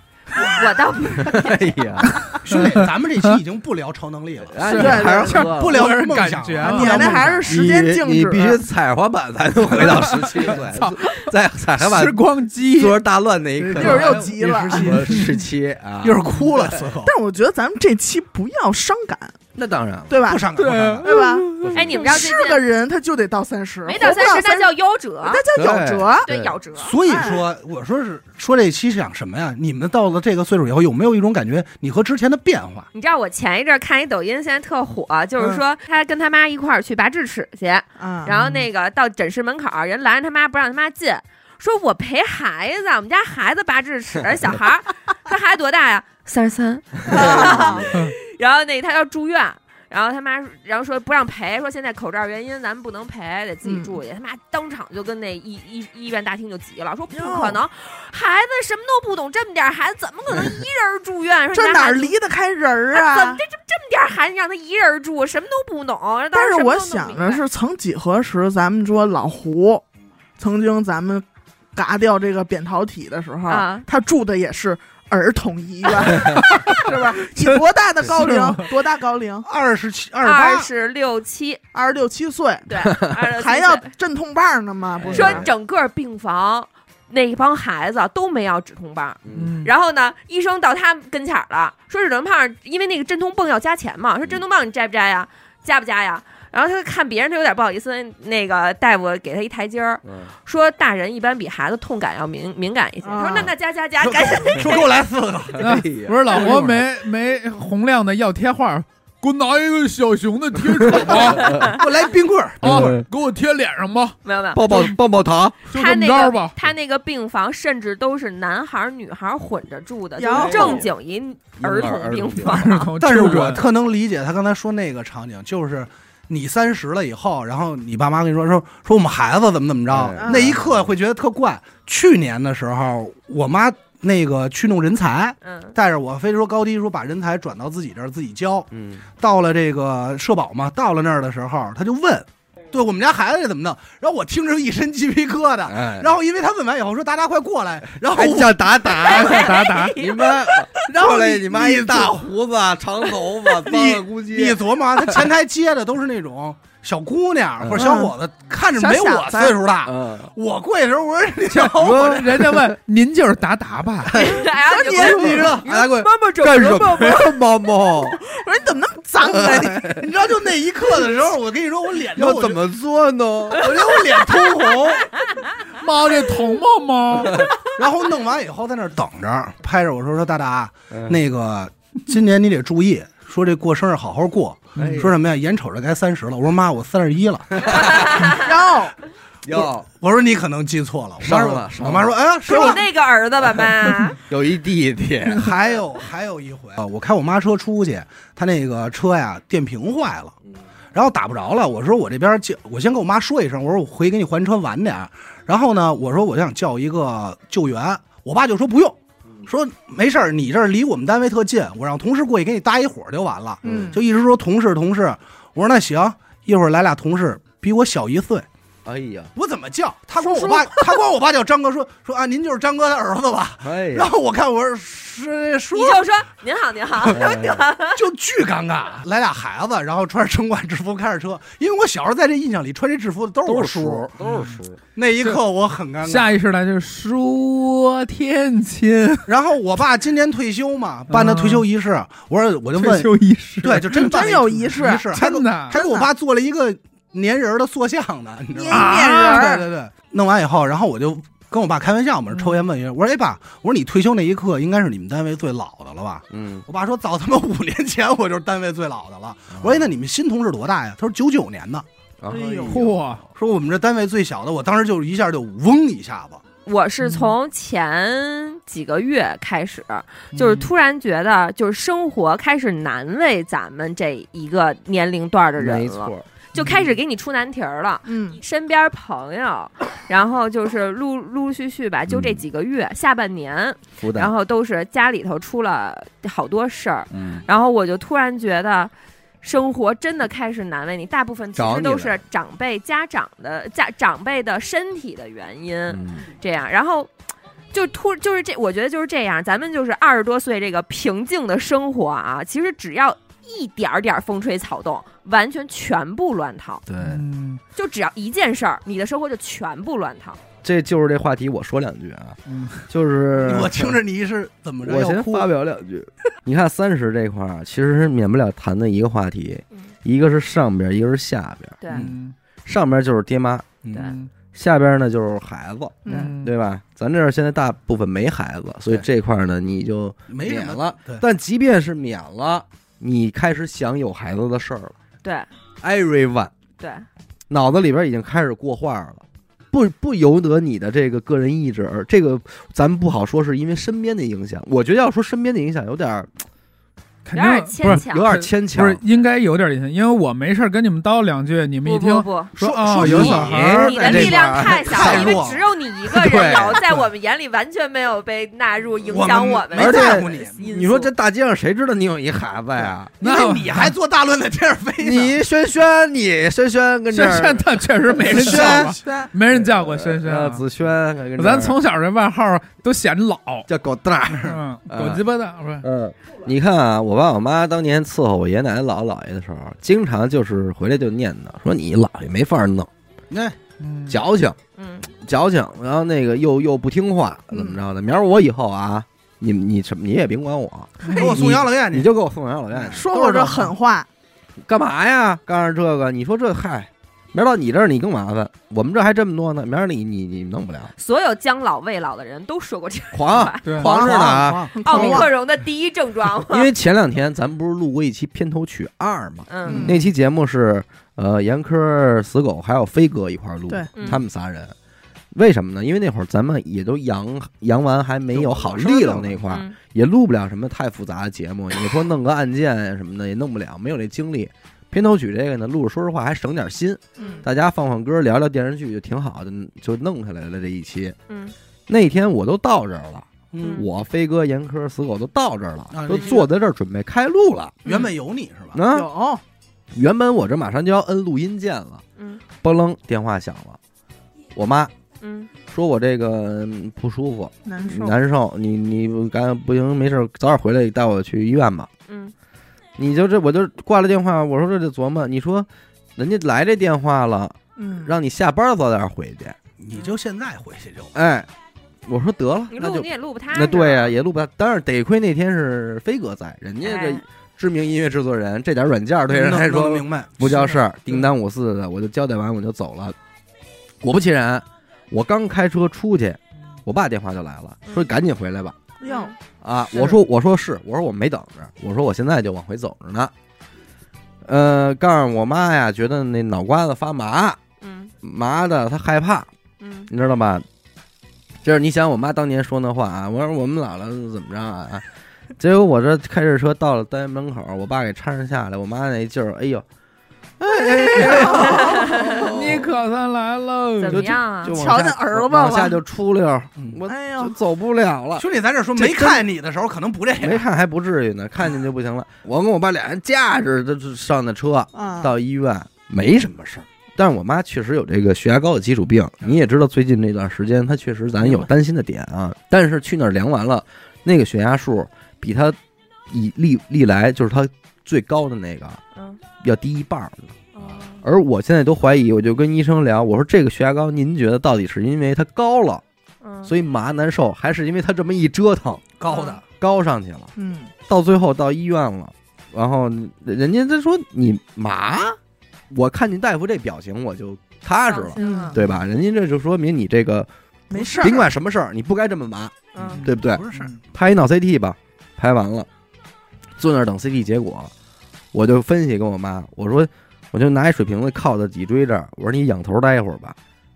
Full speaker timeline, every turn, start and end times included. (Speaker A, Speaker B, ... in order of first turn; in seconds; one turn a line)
Speaker A: 0.3-1.8
Speaker B: 1.2-2.2
Speaker C: 2.4-4.6
Speaker D: 2.5-3.4
Speaker B: 4.5-5.9
Speaker D: 4.6-7.2
Speaker E: 4.7-5.5
Speaker C: 5.4-7.5
Speaker E: 6.6-8.6
Speaker B: 7.4-16.9
Speaker D: 9.8-13.0
Speaker D: 13.6-14.3
Speaker C: 13.7-15.3
Speaker E: 13.8-15.0
Speaker C: 16.0-17.1
Speaker E: 17.1-19.4
Speaker B: 19.6-20.3
Speaker E: 20.1-20.5
Speaker C: 20.2-21.1
Speaker D: 20.6-21.0
Speaker E: 21.0-26.3
Speaker B: 21.5-22.0
Speaker A: 21.8-22.6
Speaker A: 23.9-25.4
Speaker B: 25.6-26.6
Speaker A: 26.3-27.0
Speaker C: 26.8-32.9
Speaker E: 27.1-27.4
Speaker A: 32.9-62.1
Speaker E: 38.0-38.3
Speaker D: 38.3-38.7
Speaker E: 47.1-47.9
Speaker B: 47.1-47.9
Speaker E: 53.6-54.0
Speaker E: 57.1-57.6
Speaker E: 61.5-63.4
Speaker A: 62.9-67.4
Speaker E: 66.3-69.8
Speaker E: 70.4-79.5
Speaker A: 73.5-73.9
Speaker D: 76.5-76.8
Speaker D: 78.0-78.7
Speaker C: 79.5-80.7
Speaker A: 80.2-81.6
Speaker E: 81.7-85.5
Speaker A: 82.7-83.9
Speaker B: 85.0-85.5
Speaker A: 85.1-104.9
Speaker B: 89.2-89.6
Speaker D: 89.3-89.7
Speaker B: 100.0-100.3
Speaker E: 103.0-103.5
Speaker C: 104.0-105.7
Speaker B: 105.6-106.8
Speaker D: 105.6-111.7
Speaker C: 106.4-106.7
Speaker B: 110.7-111.7
Speaker C: 111.1-113.0
Speaker D: 112.6-114.2
Speaker B: 112.6-113.1
Speaker A: 114.2-114.9
Speaker B: 114.5-115.7
Speaker D: 115.7-116.5
Speaker A: 115.7-122.9
Speaker E: 120.2-120.9
Speaker B: 120.3-120.9
Speaker B: 121.6-122.7
Speaker D: 122.5-123.7
Speaker C: 123.0-149.3
Speaker B: 129.9-130.9
Speaker E: 130.2-130.6
Speaker A: 135.4-135.8
Speaker B: 138.7-139.1
Speaker B: 145.7-146.2
Speaker B: 147.9-155.3
Speaker A: 149.0-150.7
Speaker D: 149.3-149.9
Speaker C: 150.9-152.2
Speaker C: 153.6-162.4
Speaker B: 157.6-158.1
Speaker E: 157.8-158.1
Speaker E: 158.7-159.6
Speaker B: 159.8-160.3
Speaker D: 161.5-164.2
Speaker B: 161.6-162.8
Speaker B: 164.1-164.4
Speaker A: 164.2-167.4
Speaker E: 164.6-165.6
Speaker B: 164.9-168.2
Speaker C: 165.0-165.6
Speaker E: 168.1-169.9
Speaker B: 169.2-170.1
Speaker C: 169.7-172.6
Speaker B: 172.2-175.1
Speaker C: 173.6-175.0
Speaker D: 175.7-177.5
Speaker B: 177.2-177.5
Speaker C: 177.8-188.3
Speaker B: 180.9-181.2
Speaker B: 184.8-185.2
Speaker D: 184.8-185.0
Speaker B: 187.6-188.3
Speaker E: 188.3-188.9
Speaker B: 189.4-189.9
Speaker C: 189.5-192.8
Speaker B: 191.2-192.2
Speaker A: 192.4-194.2
Speaker B: 194.2-195.5
Speaker C: 195.3-200.3
Speaker C: 200.9-218.5
Speaker B: 213.6-214.0
Speaker E: 213.6-214.0
Speaker B: 218.8-219.3
Speaker C: 219.3-226.1
Speaker E: 220.2-221.0
Speaker B: 223.6-224.1
Speaker A: 225.7-228.0
Speaker C: 227.0-227.3
Speaker B: 227.1-227.7
Speaker C: 227.9-234.2
Speaker B: 233.4-234.8
Speaker C: 234.9-236.4
Speaker D: 236.0-239.3
Speaker C: 239.3-261.9
Speaker D: 241.1-241.7
Speaker D: 242.8-244.2
Speaker E: 243.9-245.1
Speaker D: 245.1-245.8
Speaker E: 245.7-246.1
Speaker E: 248.5-249.7
Speaker D: 248.7-249.6
Speaker B: 256.3-256.6
Speaker B: 259.5-259.9
Speaker B: 262.2-262.9
Speaker E: 262.3-262.8
Speaker D: 262.7-263.2
Speaker C: 263.3-266.4
Speaker A: 266.7-297.1
Speaker D: 267.0-267.3
Speaker D: 270.3-270.7
Speaker B: 275.6-276.3
Speaker D: 276.6-276.9
Speaker E: 278.1-278.4
Speaker B: 282.1-282.4
Speaker B: 284.0-284.3
Speaker B: 287.1-287.4
Speaker B: 291.6-292.2
Speaker B: 295.9-296.3
Speaker A: 297.7-306.9
Speaker B: 306.9-307.2
Speaker D: 307.0-307.6
Speaker A: 307.8-310.4
Speaker B: 310.6-314.0
Speaker D: 312.5-312.8
Speaker C: 313.4-315.5
Speaker B: 314.8-321.8
Speaker A: 321.8-322.1
Speaker D: 321.9-322.4
Speaker B: 322.6-323.8
Speaker C: 323.8-324.1
Speaker D: 324.0-324.3
Speaker B: 324.5-334.9
Speaker E: 326.1-326.3
Speaker D: 326.1-326.5
Speaker C: 330.3-331.2
Speaker B: 335.8-336.5
Speaker A: 336.8-337.1
Speaker B: 337.5-346.3
Speaker D: 347.3-354.3
Speaker A: 347.3-348.3
Speaker B: 347.8-349.0
Speaker A: 351.9-352.5
Speaker C: 352.6-355.6
Speaker B: 352.9-355.5
Speaker A: 353.8-361.1
Speaker B: 356.1-356.9
Speaker C: 359.1-360.6
Speaker B: 359.7-363.2
Speaker D: 363.2-363.9
Speaker C: 363.2-365.4
Speaker B: 365.0-368.9
Speaker D: 367.1-370.6
Speaker C: 368.1-369.2
Speaker B: 369.5-371.8
Speaker D: 371.4-373.7
Speaker B: 373.7-375.2
Speaker D: 374.4-375.9
Speaker B: 375.8-382.9
Speaker C: 383.3-383.6
Speaker D: 383.8-384.2
Speaker B: 384.1-384.6
Speaker A: 384.8-385.1
Speaker B: 385.2-393.7
Speaker E: 387.5-387.8
Speaker C: 391.1-392.1
Speaker C: 392.7-393.0
Speaker E: 392.9-394.1
Speaker B: 394.6-400.9
Speaker A: 401.0-403.7
Speaker B: 403.1-405.1
Speaker C: 403.7-405.2
Speaker E: 403.9-405.3
Speaker A: 404.8-406.7
Speaker B: 406.5-414.7
Speaker A: 409.5-409.9
Speaker E: 409.7-410.0
Speaker A: 414.0-414.2
Speaker B: 415.3-431.2
Speaker C: 418.3-419.4
Speaker A: 419.5-419.8
Speaker A: 427.2-427.4
Speaker A: 431.3-431.6
Speaker B: 431.9-437.8
Speaker C: 433.5-433.8
Speaker A: 433.6-433.9
Speaker C: 435.9-436.5
Speaker C: 437.9-438.8
Speaker B: 438.7-439.1
Speaker E: 438.9-439.4
Speaker B: 439.9-442.0
Speaker A: 442.2-442.4
Speaker B: 442.6-443.8
Speaker B: 444.6-444.9
Speaker A: 445.2-445.5
Speaker B: 445.7-451.9
Speaker E: 447.7-448.2
Speaker A: 452.1-452.3
Speaker B: 453.0-459.6
Speaker E: 457.8-458.1
Speaker C: 459.8-461.1
Speaker B: 461.1-461.5
Speaker B: 462.1-473.2
Speaker A: 462.7-464.2
Speaker A: 466.8-467.2
Speaker C: 469.3-470.6
Speaker B: 474.0-478.8
Speaker E: 479.0-479.3
Speaker A: 479.1-479.4
Speaker B: 479.6-483.3
Speaker B: 484.4-487.6
Speaker A: 487.8-488.1
Speaker B: 488.2-489.5
Speaker A: 489.8-490.1
Speaker B: 490.1-490.7
Speaker B: 491.6-495.1
Speaker B: 495.6-499.9
Speaker B: 500.6-502.9
Speaker E: 501.1-501.9
Speaker A: 501.5-502.5
Speaker D: 502.4-504.4
Speaker A: 504.0-504.8
Speaker B: 504.1-509.5
Speaker E: 504.7-506.0
Speaker E: 507.1-507.6
Speaker C: 508.4-510.7
Speaker B: 510.4-525.8
Speaker E: 514.9-515.3
Speaker B: 526.3-529.0
Speaker B: 529.6-530.6
Speaker A: 530.7-531.2
Speaker B: 531.2-536.0
Speaker A: 536.4-536.7
Speaker B: 536.6-539.0
Speaker C: 539.2-539.6
Speaker A: 539.3-539.6
Speaker B: 539.8-540.5
Speaker E: 540.6-540.9
Speaker B: 541.1-545.4
Speaker B: 545.9-555.9
Speaker A: 548.0-548.8
Speaker E: 548.4-548.8
Speaker E: 550.9-551.5
Speaker A: 552.9-553.2
Speaker C: 553.0-554.0
Speaker B: 556.8-557.9
Speaker B: 558.5-563.6